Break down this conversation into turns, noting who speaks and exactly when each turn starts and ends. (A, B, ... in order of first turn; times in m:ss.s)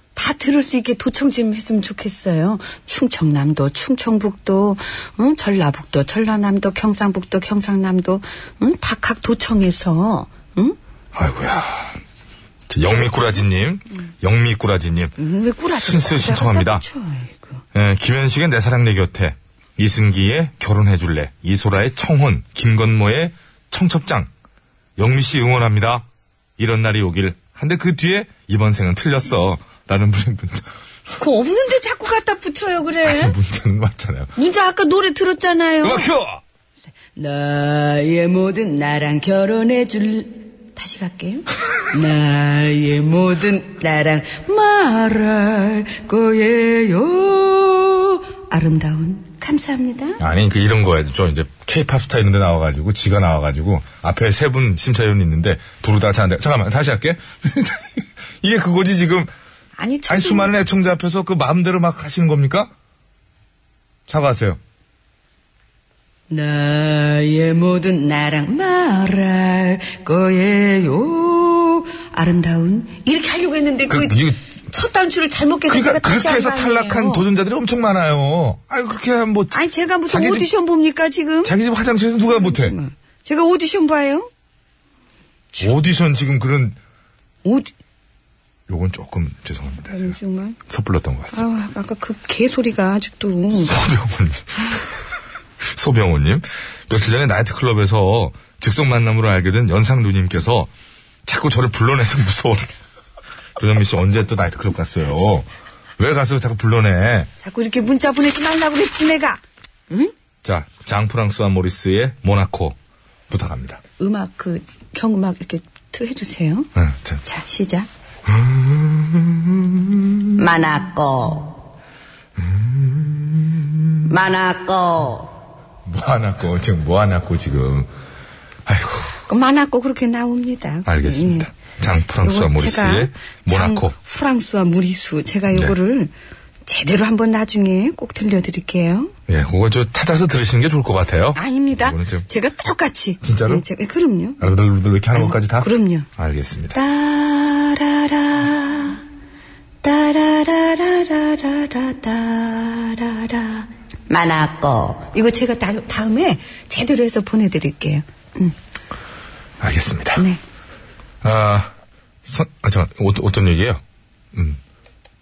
0:00.1-0:10.8 A
0:11.1-0:12.0 B
0:12.7-0:15.1 B
0:15.2-0:17.6 A
0:15.7-0:16.8 B
0:17.7-0:24.3 B
0:25.0-0:26.0 B
0:26.6-0:30.7 B
0:31.2-0:33.4 A
0:33.0-0:34.3 B
0:34.4-0:36.1 A
0:35.8-0:36.4 B
0:37.1-0:50.2 A
0:50.2-0:59.3 B
0:59.8-1:00.5 A
1:00.1-1:02.7 B
1:04.1-1:04.6 B
1:06.3-1:17.2 A
1:13.9-1:14.4 B
1:15.7-1:19.6 B
1:19.5-1:21.5 A
1:20.1-1:20.5 B
1:21.4-1:22.8 B
1:22.2-1:24.3 A
1:25.6-1:26.8 B
1:27.4-1:27.7 A
1:28.7-1:30.2 B
1:29.9-1:30.6 A
1:30.7-1:31.4 B
1:31.3-1:33.7 A
1:33.5-1:34.7 B
1:35.6-1:40.7 B
1:41.2-1:42.7 B
1:43.6-1:47.3 B
1:47.4-1:50.1 A
1:50.4-1:52.8 B
1:53.3-1:53.8 B
1:54.0-1:56.7 A
1:56.8-1:57.2 B
1:57.2-1:57.9 A
1:58.2-2:00.3 B
2:00.4-2:01.5 A
2:02.4-2:04.1 B
2:04.1-2:05.3 A
2:05.8-2:07.9 B
2:08.6-2:09.2 B
2:09.3-2:11.5 A
2:10.8-2:13.9 B
2:12.2-2:16.1 A
2:16.6-2:19.1 A
2:19.3-2:22.3 B
2:21.4-2:24.4 A
2:23.2-2:23.6 B
2:24.4-2:26.8 B
2:25.1-2:26.1 A
2:26.7-2:29.0 A
2:29.8-2:38.6 A
2:39.6-2:40.2 B
2:41.2-2:41.7 B
2:42.2-2:43.8 B
2:44.3-2:44.6 B